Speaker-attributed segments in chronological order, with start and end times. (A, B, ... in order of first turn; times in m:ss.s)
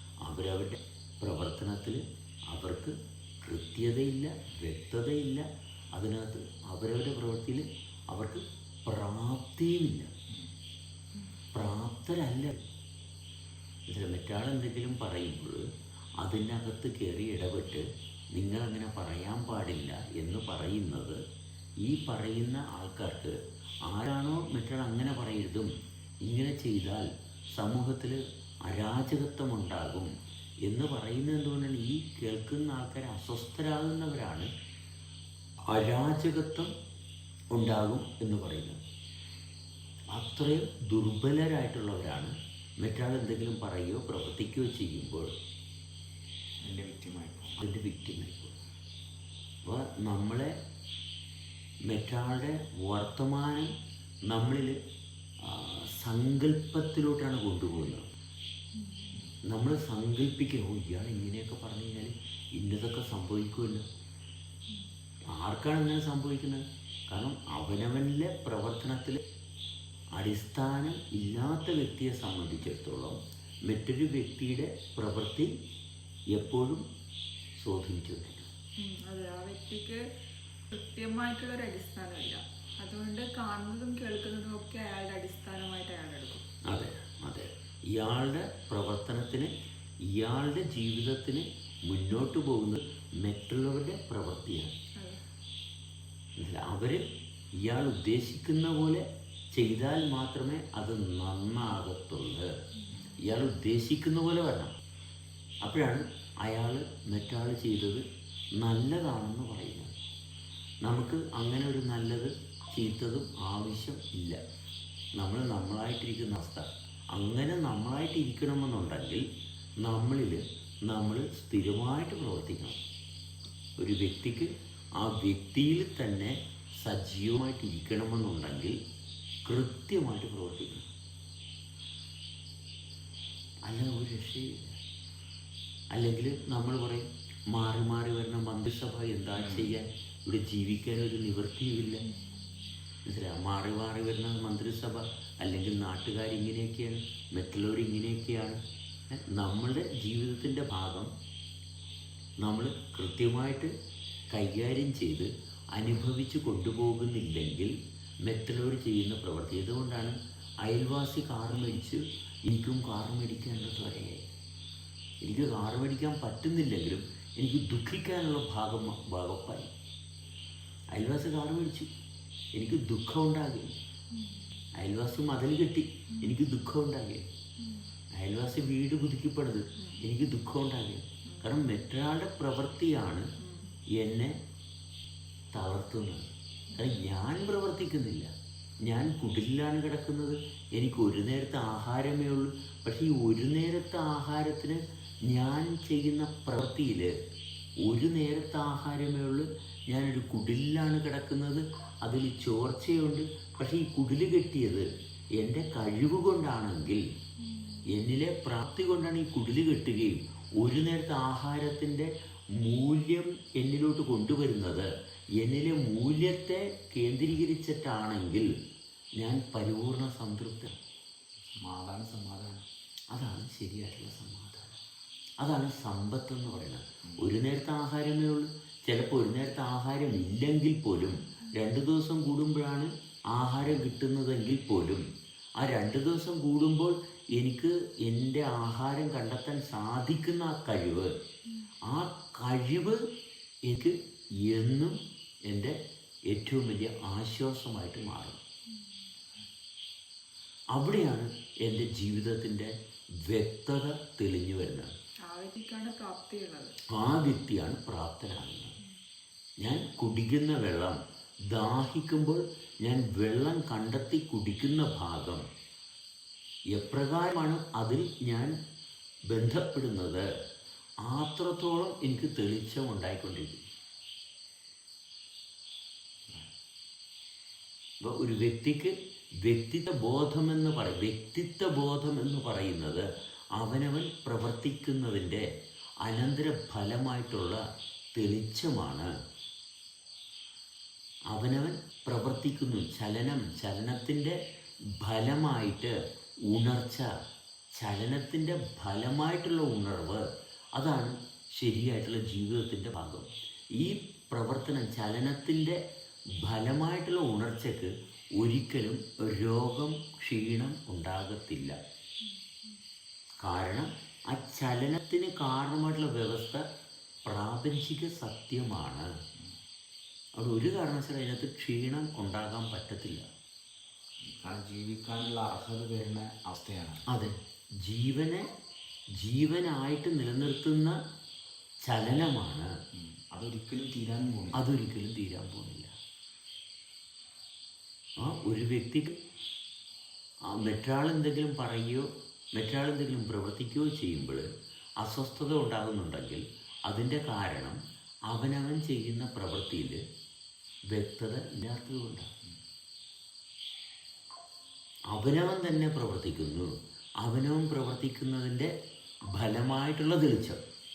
0:00.2-0:10.1 A
0:11.5-0:12.6 A
0:13.9-0:15.7 A
0:16.2-0:21.2 A
0:21.8-0:25.7 A
0:26.2-0:30.1 A
0:30.6-0:34.5 A
0:35.7-0:36.7 A
0:37.5-0:38.8 A
0:40.1-0:45.3 A
0:46.6-0:47.6 B
0:47.6-0:48.6 A
0:49.6-0:50.5 A
0:51.9-0:53.7 A
0:54.3-0:54.8 A
0:55.4-0:58.1 A
0:58.8-0:59.2 C
0:59.5-1:03.8 A
1:05.4-1:09.2 A
1:10.2-1:15.5 A
1:16.3-1:16.8 A
1:17.6-1:18.5 A
1:18.8-1:20.0 C
1:20.7-1:26.4 C
1:26.7-1:29.5 A
1:30.1-1:34.7 A
1:36.4-1:37.0 A
1:37.6-1:42.5 A
1:43.1-1:44.7 A
1:45.6-1:48.0 A
1:48.6-1:49.9 A
1:50.8-1:54.4 A
1:55.2-1:59.2 A
1:59.8-2:02.8 A
2:03.8-2:08.8 A
2:09.4-2:10.9 A
2:13.7-2:14.8 A
2:15.9-2:22.1 A
2:19.4-2:19.8 B
2:23.1-2:28.6 A
2:29.1-2:31.1 A
2:32.4-2:33.7 A
2:34.3-2:44.3 A
2:45.2-2:49.7 A
2:50.9-2:51.9 A
2:52.5-2:53.8 A
2:54.1-2:54.4 C
2:54.8-2:57.3 A
2:57.6-2:57.9 C
2:58.1-3:03.3 A
3:01.3-3:01.6 C
3:03.4-3:03.7 C
3:04.0-3:04.4 A
3:05.5-3:06.2 A
3:06.8-3:08.3 A
3:08.8-3:17.1 A
3:17.8-3:27.0 A
3:27.9-3:38.5 A
3:39.2-3:40.7 A
3:41.6-3:42.7 B
3:43.1-3:44.8 A
3:45.4-3:55.0 A
3:55.6-4:01.1 A
4:01.9-4:03.0 A
4:03.7-4:05.8 A
4:06.3-4:08.4 A
4:10.7-4:12.7 A
4:13.2-4:14.9 A
4:15.3-4:16.8 C
4:16.9-4:18.7 A
4:19.6-4:21.0 A
4:21.5-4:25.4 A
4:26.7-4:28.5 A
4:29.3-4:30.2 A
4:31.0-4:33.6 A
4:38.0-4:43.0 A
4:43.6-4:45.4 A
4:46.0-4:47.6 A
4:48.2-4:49.1 A
4:51.3-4:54.4 A
4:55.0-4:55.9 A
4:56.5-4:57.1 A
4:57.8-5:05.8 A
5:06.4-5:11.8 A
5:13.4-5:16.6 A
5:17.3-5:19.1 A
5:20.4-5:23.2 A
5:24.2-5:27.0 B
5:27.1-5:27.3 A
5:27.8-5:28.5 A
5:29.2-5:31.0 A
5:31.8-5:32.7 A
5:33.0-5:34.6 B
5:34.5-5:35.9 A
5:38.2-5:39.2 A
5:40.5-5:44.4 A
5:45.0-5:47.8 A
5:48.3-5:50.0 A
5:50.9-5:52.3 A
5:55.1-5:56.7 A
5:57.2-5:58.7 A
5:59.4-6:00.6 A